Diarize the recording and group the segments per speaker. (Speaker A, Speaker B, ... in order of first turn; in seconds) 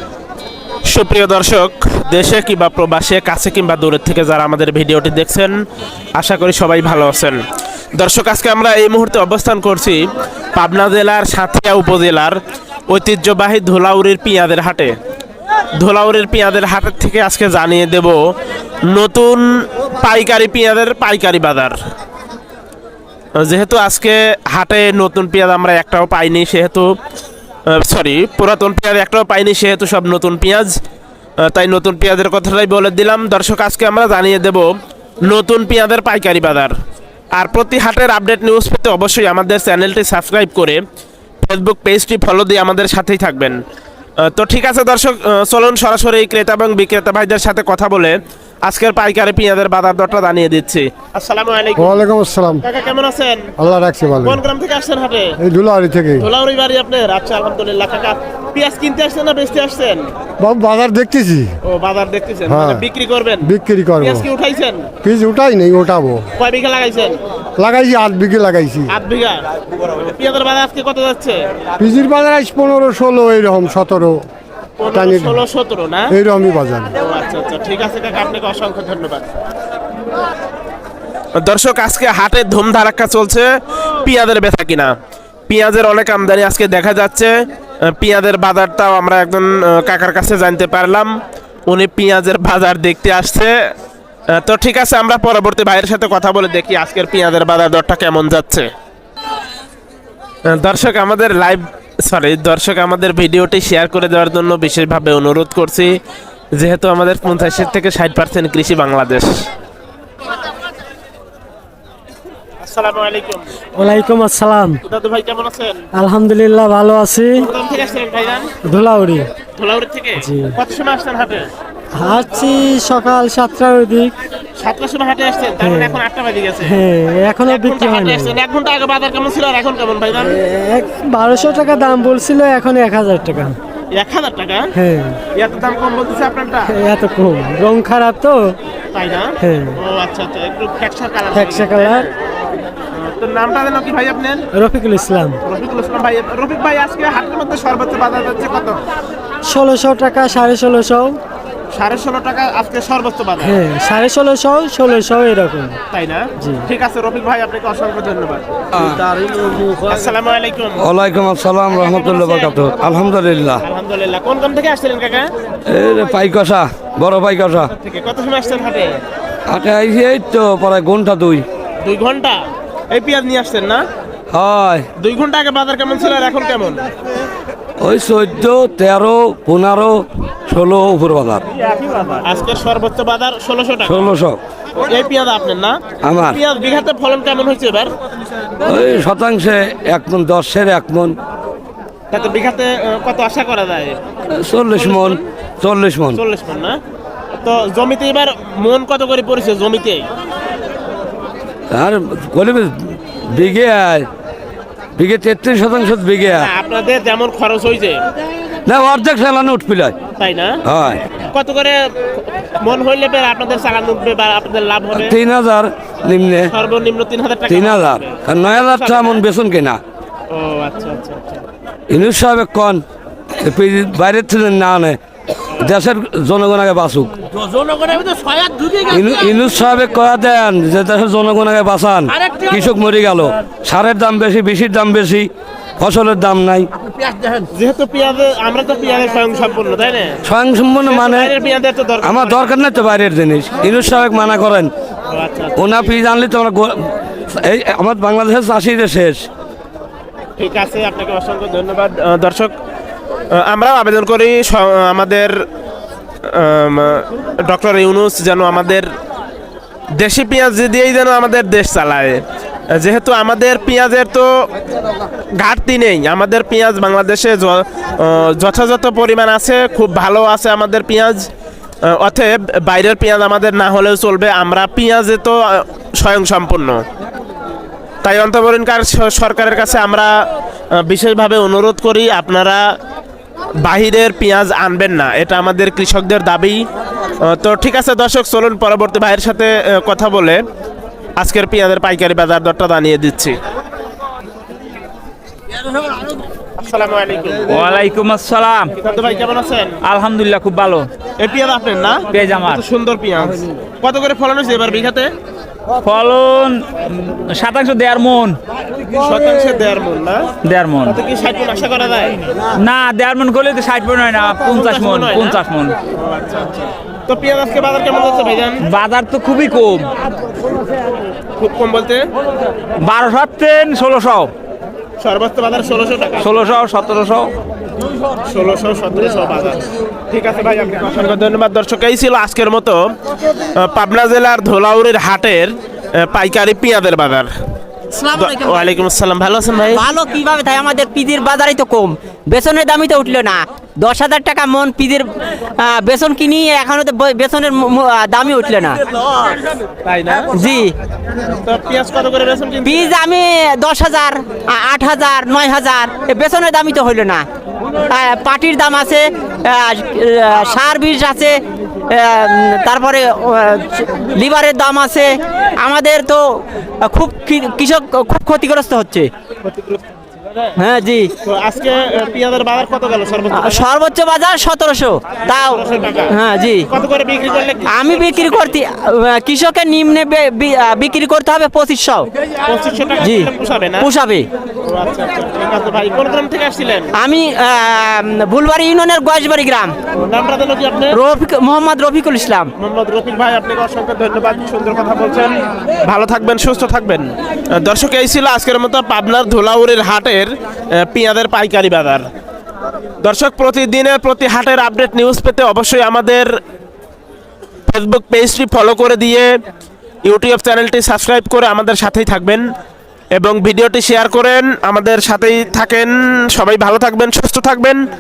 Speaker A: 0.9-5.5, 6.2-7.4, 8.0-10.0, 10.6-14.9, 15.8-18.2, 18.9-21.8, 23.4-26.9, 27.7-30.7, 31.4-34.7, 35.2-36.7, 37.3-40.8, 41.4-43.6, 44.2-52.0, 52.6-53.5, 54.2-55.4, 56.2-60.1, 61.6-64.9, 66.4-67.2, 68.9-69.5, 70.0-71.4, 74.8-76.1, 77.0-79.3, 81.4-83.5, 84.0-84.9, 85.5-87.3, 87.9-91.1, 91.7-93.5, 94.3-98.7, 100.5-106.0, 106.5-109.3, 112.6-113.5, 114.9-115.8, 117.4-118.5, 119.6-121.5, 124.6-126.8, 127.5-130.4, 133.9-134.7, 135.3-136.8, 138.9-142.1, 142.9-144.4, 145.4-148.8, 151.7-153.6, 155.9-160.9, 161.9-162.6, 163.6-165.3, 167.8-169.0, 171.8-173.8, 175.0-176.9, 182.2-184.1, 184.8-187.9, 192.1-194.0, 196.1-196.8, 197.3-200.1, 206.3-208.0, 210.2-210.6, 211.2-215.2, 216.4-219.2, 220.3-221.4, 227.4-229.0, 237.5-240.2, 240.8-242.5, 245.1-245.6, 250.4-252.5, 253.3-255.4, 256.3-258.9, 260.0-264.5, 265.4-271.3, 271.8-276.8, 278.0-280.2, 280.8-282.6, 283.6-286.6, 287.2-290.4, 291.2-293.4, 296.6-297.5, 298.8-299.8, 301.2-305.1, 308.9-310.3, 310.9-312.2, 314.5-315.4, 315.9-318.6, 321.4-322.0, 325.0-326.3, 328.3-332.8, 333.6-337.3, 338.1-339.9, 349.8-350.4, 351.4-353.0, 369.4-369.8, 371.2-373.7, 375.3-376.1, 376.7-378.6, 382.4-383.9, 384.7-386.9, 390.0-391.0, 392.6-402.1, 403.0-406.3, 407.7-409.3, 410.1-412.4, 413.2-417.8
Speaker B: 51.8-52.6, 53.6-54.4, 55.4-56.3, 60.4-61.5, 62.5-62.9, 63.4-64.3, 65.0-66.2, 67.6-68.9, 71.8-74.2, 74.9-75.4, 76.1-76.9
Speaker C: 113.8-114.8, 115.9-117.5, 118.7-119.3, 120.2-120.6, 122.0-124.1, 125.6-126.0, 126.7-128.4, 130.4-133.6, 134.8-135.2, 136.7-138.6, 139.4-139.8, 141.3-142.1, 144.5-145.4, 149.4-151.2, 153.4-155.8, 156.4-156.7, 342.9-343.3, 344.3-344.9, 346.4-346.9, 356.5-357.2, 365.7-365.9, 373.4-373.7
Speaker D: 158.7-159.0, 160.8-163.6, 165.7-167.7, 169.5-171.4, 174.3-174.9, 177.8-181.4, 183.8-184.4, 186.0-186.4, 188.6-191.2, 194.3-196.2, 201.7-204.1, 205.0-206.5, 208.7-210.0, 210.7-211.0, 214.9-216.5, 217.5-219.8, 221.9-225.0, 225.6-227.1, 228.9-235.3, 235.8-236.7, 240.2-241.3, 242.0-244.7, 245.6-249.3
Speaker E: 297.5-298.7, 299.8-300.9, 302.1-302.6, 305.8-308.4, 310.4-311.0, 312.6-315.8, 318.6-319.9, 322.8-324.3, 326.2-327.3
Speaker F: 339.7-345.1, 345.6-348.8, 350.4-350.8, 352.6-357.2, 357.9-369.1, 370.6-371.1, 373.4-375.6, 376.1-376.7, 377.7-382.1, 383.0-383.3, 383.8-384.3, 387.0-389.7, 390.9-392.5